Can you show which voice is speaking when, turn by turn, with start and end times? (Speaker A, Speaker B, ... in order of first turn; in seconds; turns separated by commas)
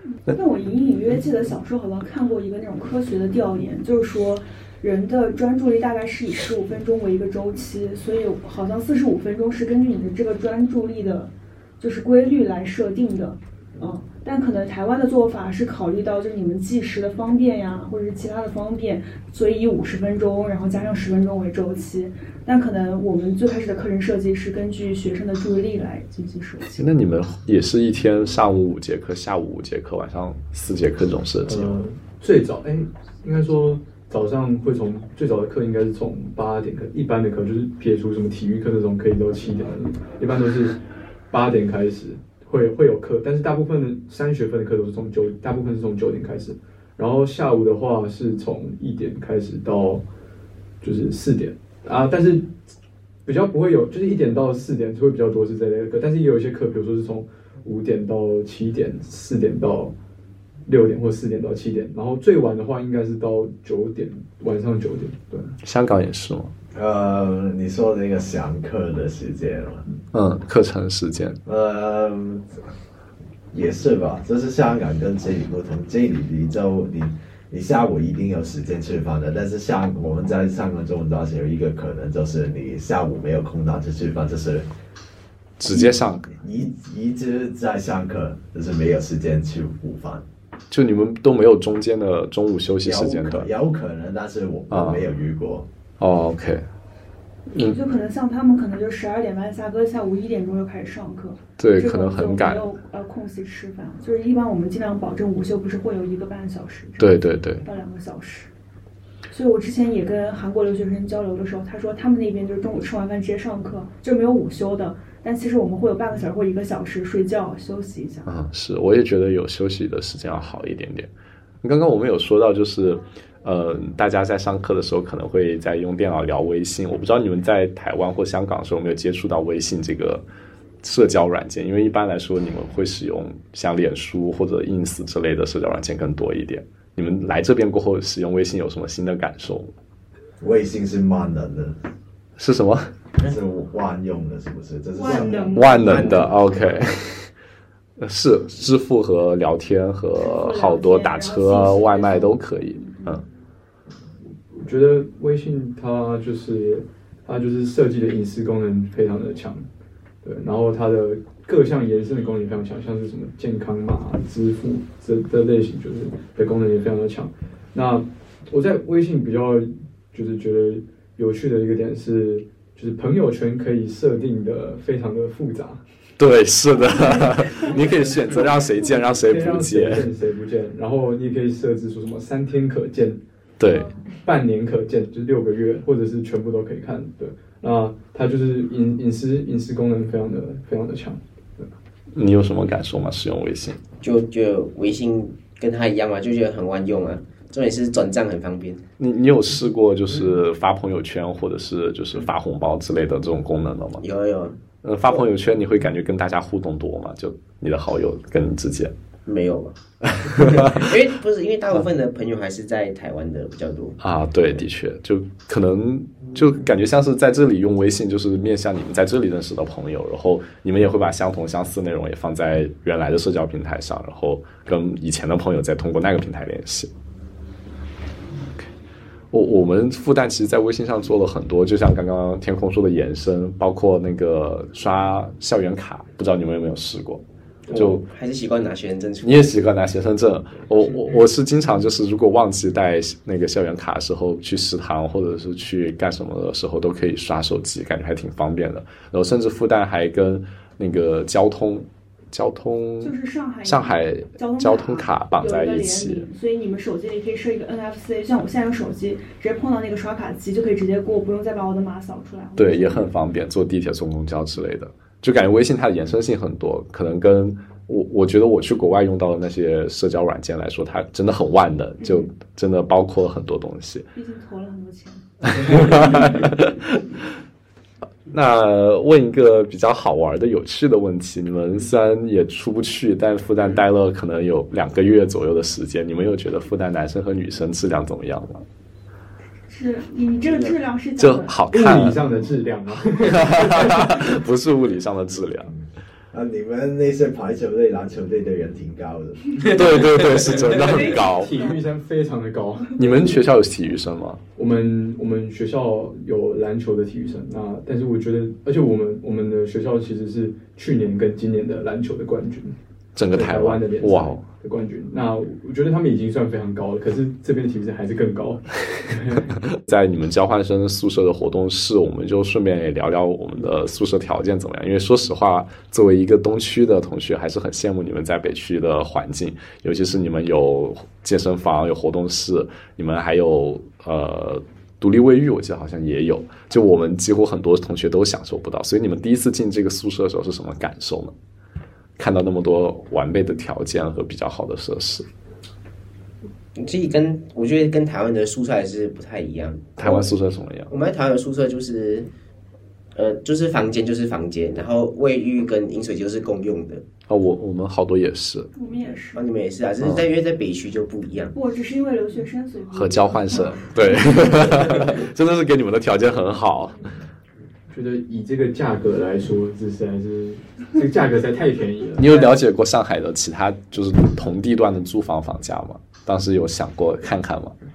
Speaker A: 0.2-26.8, Speaker B: 26.8-31.8, Speaker C: 31.4-40.8, Speaker C: 41.3-50.0, Speaker C: 50.8-52.5, Speaker C: 53.3-59.9, Speaker C: 60.7-65.5, Speaker B: 65.6-66.5, Speaker D: 66.7-69.9, Speaker B: 70.1-71.4, Speaker D: 71.5-72.5, Speaker D: 73.5-84.7, Speaker B: 85.6-86.3, Speaker D: 85.7-90.2, Speaker B: 90.7-93.5, Speaker D: 92.8-95.7, Speaker B: 94.7-95.0, Speaker B: 96.0-96.7, Speaker B: 97.5-97.8, Speaker A: 97.6-108.5, Speaker B: 101.6-102.7, Speaker B: 107.0-107.6, Speaker A: 109.3-118.3, Speaker B: 118.3-121.1, Speaker B: 121.6-130.2, Speaker B: 130.8-139.7, Speaker D: 140.4-141.8, Speaker B: 142.4-142.9, Speaker D: 143.2-146.2, Speaker A: 145.0-146.3, Speaker B: 145.6-147.3, Speaker E: 145.8-146.4, Speaker B: 148.0-153.2, Speaker A: 150.2-153.2, Speaker C: 154.5-159.7, Speaker C: 160.2-175.8, Speaker B: 176.2-180.1, Speaker A: 176.7-179.1, Speaker C: 179.2-183.2, Speaker B: 183.6-183.9, Speaker A: 183.7-184.0, Speaker C: 184.2-191.7, Speaker B: 192.1-193.8, Speaker E: 194.0-198.8, Speaker B: 199.0-204.0, Speaker E: 204.0-205.2, Speaker B: 204.8-208.9, Speaker E: 209.3-214.0, Speaker B: 210.1-210.9, Speaker B: 214.0-226.9, Speaker B: 229.3-238.0, Speaker C: 237.7-237.9, Speaker E: 237.8-239.5, Speaker B: 239.2-256.3, Speaker A: 253.0-263.1, Speaker B: 262.6-274.1, Speaker A: 272.0-272.3, Speaker A: 274.1-276.4, Speaker B: 275.4-276.9, Speaker B: 278.3-288.6, Speaker A: 289.7-291.6, Speaker B: 291.2-292.2, Speaker C: 291.7-294.2, Speaker B: 293.2-295.7, Speaker D: 296.3-299.7, Speaker B: 299.7-301.5, Speaker A: 300.7-301.8, Speaker C: 301.1-303.0, Speaker B: 303.0-304.4, Speaker C: 304.6-312.8, Speaker B: 313.1-314.4, Speaker C: 313.3-319.5, Speaker B: 319.9-341.3, Speaker B: 342.2-345.3, Speaker E: 346.8-350.3, Speaker B: 350.0-350.9, Speaker E: 350.9-352.3, Speaker E: 353.1-357.0, Speaker B: 357.3-358.7, Speaker A: 358.8-359.5, Speaker E: 359.4-361.5, Speaker B: 360.0-360.2, Speaker A: 361.5-365.0, Speaker B: 362.9-367.0, Speaker C: 367.9-372.5, Speaker B: 372.2-377.8